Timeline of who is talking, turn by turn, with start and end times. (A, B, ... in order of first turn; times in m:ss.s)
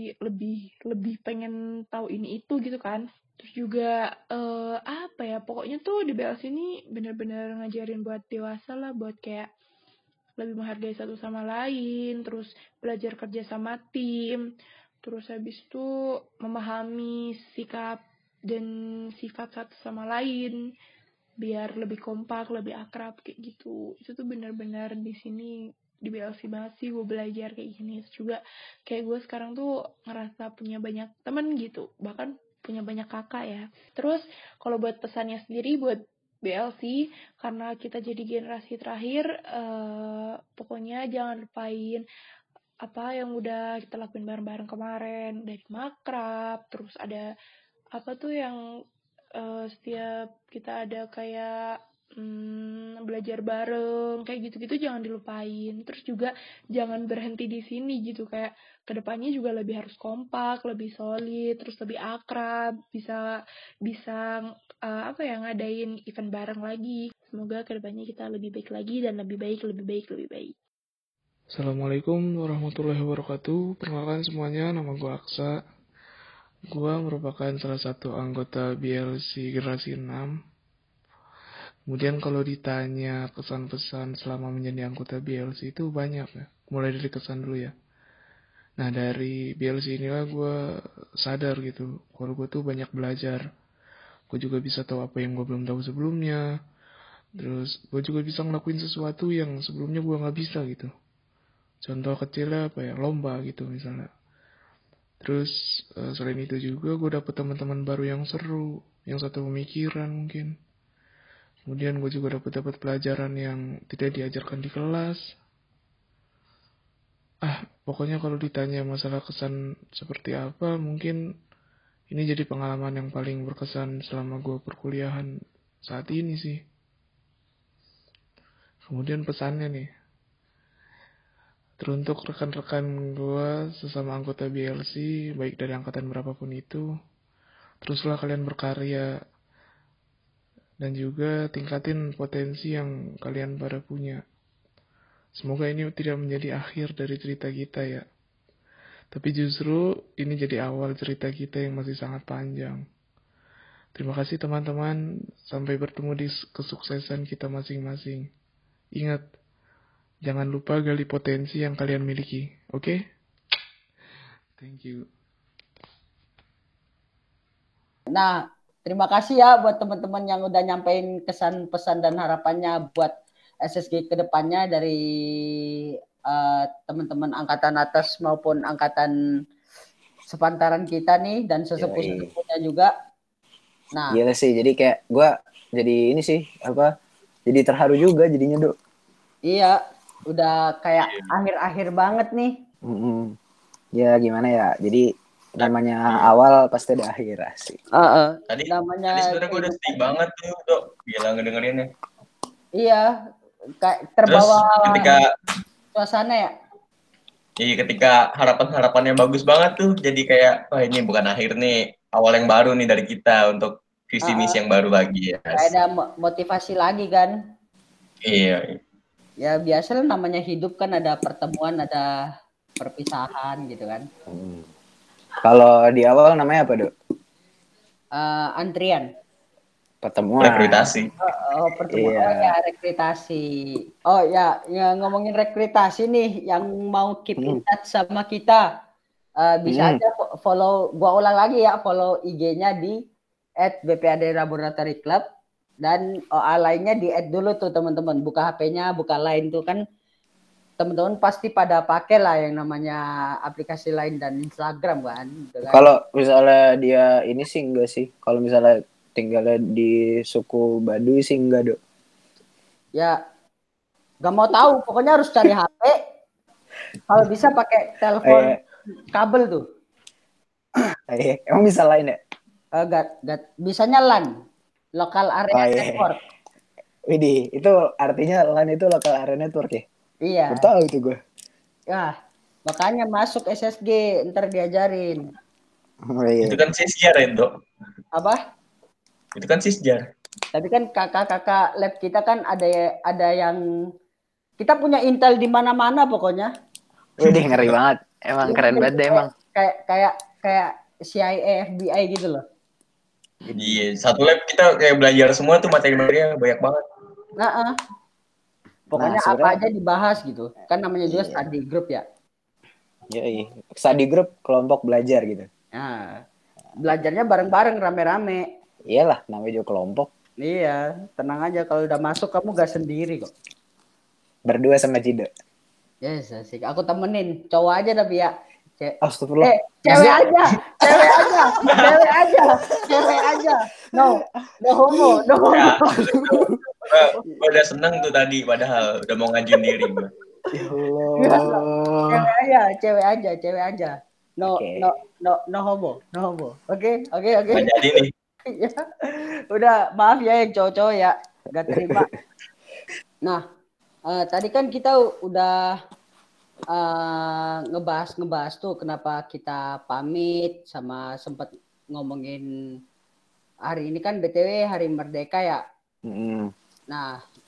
0:00.2-0:09.5 A
0:10.4-0:14.4 A
0:15.0-0:15.9 A
0:16.4-0:20.6 A
0:21.4-0:42.0 A
0:42.8-0:47.3 A
0:48.0-0:48.6 A
0:49.4-1:10.5 A
1:11.5-1:15.6 B
1:16.7-1:20.3 B
1:21.9-1:27.7 B
1:28.8-1:30.5 B
1:31.2-1:33.4 B
1:34.3-1:36.4 B
1:37.4-1:40.9 B
1:41.8-1:44.1 B
1:45.2-1:50.5 B
1:51.6-1:55.3 B
1:57.4-2:01.2 B
2:02.1-2:05.3 B
2:05.8-2:06.6 B
2:08.8-2:09.9 B
2:11.8-2:16.8 B
2:17.8-2:19.2 B
2:20.8-2:24.2 B
2:25.3-2:28.0 B
2:29.1-2:32.8 B
2:33.9-2:38.3 B
2:39.0-2:39.2 B
2:40.2-2:43.0 B
2:44.6-2:45.1 B
2:48.8-2:53.1 C
2:53.6-2:55.0 C
2:56.3-2:59.1 C
3:00.3-3:02.9 C
3:01.8-3:02.3 D
3:04.1-3:06.9 D
3:07.5-3:08.7 D
3:09.5-3:09.8 C
3:10.3-3:12.5 C
3:12.8-3:13.4 D
3:14.0-3:15.0 D
3:15.6-3:17.8 D
3:15.6-3:16.3 E
3:18.0-3:20.0 C
3:18.5-3:21.9 E
3:22.8-3:23.0 C
3:23.8-3:25.2 C
3:24.3-3:25.2 E
3:25.9-3:26.5 C
3:27.6-3:35.7 E
3:34.2-3:34.6 C
3:35.5-3:37.3 C
3:38.3-3:38.8 E
3:39.4-3:42.0 C
3:42.8-3:44.0 C
3:44.3-3:44.6 D
3:45.4-3:46.9 D
3:48.2-3:49.1 C
3:50.0-3:50.8 D
3:50.4-3:51.0 E
3:51.2-3:53.4 C
3:51.9-3:52.5 D
3:54.1-3:58.6 C
3:59.4-4:03.0 C
3:59.7-4:00.0 D
4:03.6-4:05.2 C
4:05.8-4:09.8 C
4:10.8-4:15.8 C
4:15.7-4:21.8 D
4:24.2-4:26.0 C
4:27.1-4:28.6 C
4:28.2-4:28.6 D
4:29.1-4:29.6 C
4:31.1-4:32.2 D
4:32.8-4:34.3 C
4:35.0-4:36.2 C
4:35.5-4:36.1 D
4:37.1-4:39.8 D
4:40.3-4:40.6 C
4:40.5-4:41.2 D
4:42.7-4:45.2 C
4:46.1-4:46.6 D
4:46.4-4:47.5 E
4:49.4-4:50.0 E
4:50.5-4:53.6 C
4:54.6-4:56.5 C
4:57.2-4:59.3 D
4:58.4-5:02.4 C
5:03.5-5:03.8 C
5:03.6-5:06.8 E
5:07.4-5:07.8 C
5:08.9-5:12.0 C
5:08.9-5:09.6 D
5:11.1-5:11.4 D
5:13.1-5:15.5 D
5:15.8-5:16.2 C
5:16.8-5:18.4 C
5:18.9-5:20.1 D
5:20.4-5:23.3 C
5:24.4-5:25.3 D
5:26.0-5:35.7 C
5:29.0-5:30.3 D
5:30.8-5:31.9 D
5:32.9-5:33.2 D
5:34.9-5:36.5 D
5:35.5-5:40.1 E
5:40.5-5:42.3 D
5:41.2-5:47.7 C
5:44.4-5:44.9 D
5:47.5-5:48.1 E
5:48.4-5:52.1 C
5:51.7-5:52.1 D
5:54.1-5:55.7 C
5:56.7-6:02.4 C
6:03.7-6:05.6 C
6:06.0-6:06.5 D
6:06.9-6:07.2 C